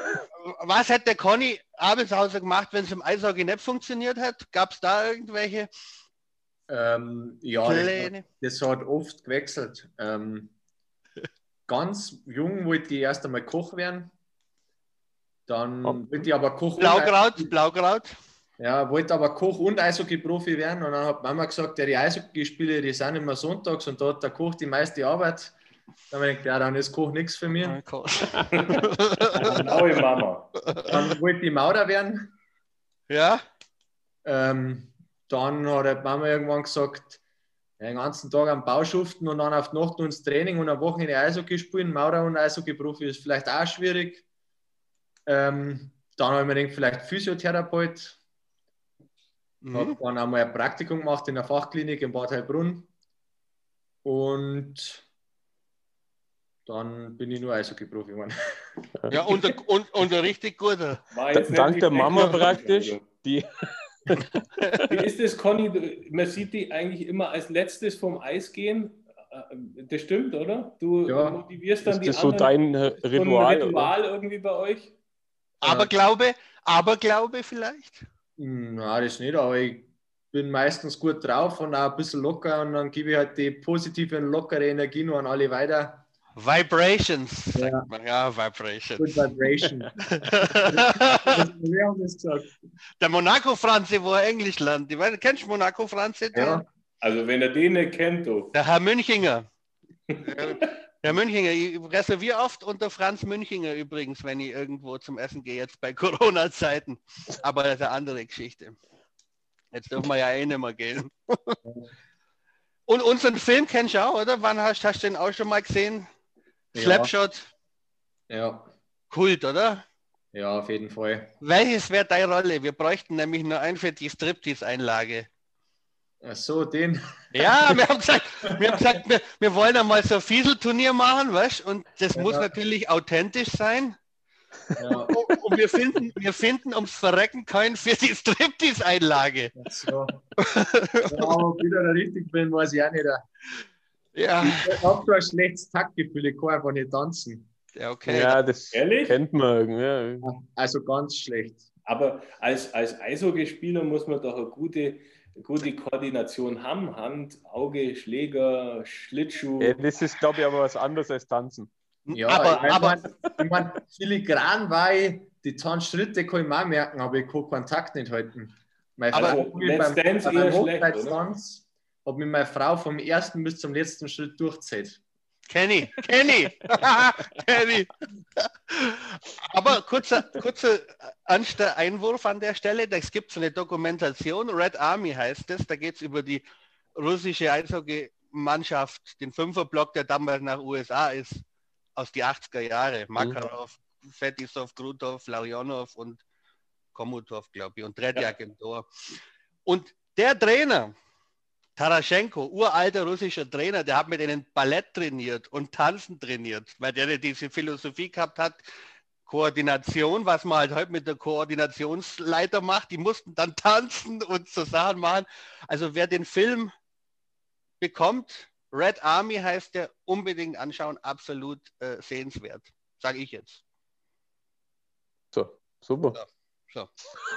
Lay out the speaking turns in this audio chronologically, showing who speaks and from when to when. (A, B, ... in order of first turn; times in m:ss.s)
0:00.4-0:05.7 A
0:06.7-0:10.5 B
0:07.6-0:08.2 A
0:11.7-0:14.1 B
0:15.5-0:17.5 B
0:15.8-0:16.2 C
0:16.8-0:18.1 A
0:18.6-0:25.6 B
0:26.1-0:27.8 B
0:27.6-0:29.6 A
0:28.5-0:28.8 D
0:29.4-0:30.5 D
0:30.8-0:32.3 B
0:33.1-0:33.4 A
0:34.2-0:37.2 B
0:37.8-0:44.2 B
0:45.2-0:48.2 B
0:49.6-0:50.0 A
0:49.7-0:52.9 B
0:54.0-0:55.0 B
0:56.6-0:58.9 B
0:59.1-1:01.0 A
1:01.1-1:03.0 D
1:01.3-1:04.9 C
1:04.9-1:14.9 D
1:11.0-1:11.4 B
1:11.8-1:13.9 C
1:15.6-1:18.0 A
1:15.6-1:15.9 B
1:18.4-1:26.1 B
1:26.4-1:29.2 A
1:27.5-1:27.9 B
1:29.0-1:29.9 B
1:30.1-1:31.4 A
1:30.7-1:32.6 B
1:33.0-1:36.6 A
1:36.3-1:36.6 B
1:37.0-1:38.5 D
1:38.5-1:39.4 A
1:40.1-1:40.7 D
1:40.2-1:48.8 A
1:49.7-1:51.6 A
1:52.9-1:56.1 A
1:56.7-1:57.1 B
1:56.7-1:57.5 A
1:58.3-1:58.7 B
1:59.1-1:59.8 A
2:00.3-2:01.3 B
2:01.4-2:05.3 A
2:06.2-2:07.8 B
2:07.3-2:14.0 A
2:12.1-2:12.5 B
2:14.8-2:15.1 B
2:15.1-2:19.5 A
2:19.6-2:20.3 B
2:20.4-2:21.4 A
2:21.1-2:23.2 B
2:24.1-2:24.8 A
2:24.4-2:27.5 B
2:27.7-2:28.4 A
2:28.1-2:30.3 C
2:28.7-2:29.2 D
2:30.2-2:31.6 B
2:31.9-2:39.9 D
2:39.6-2:41.7 C
2:42.1-2:43.0 A
2:42.1-2:55.0 B
2:42.4-2:43.1 D
2:49.1-2:49.4 A
2:49.1-2:51.2 D
2:55.5-3:06.4 A
3:06.9-3:11.4 A
3:12.0-3:16.2 A
3:13.2-3:13.4 C
3:16.9-3:20.9 A
3:21.8-3:28.6 A
3:29.2-3:36.7 A
3:37.8-3:43.6 A
3:45.3-3:46.2 C
3:46.1-3:46.9 A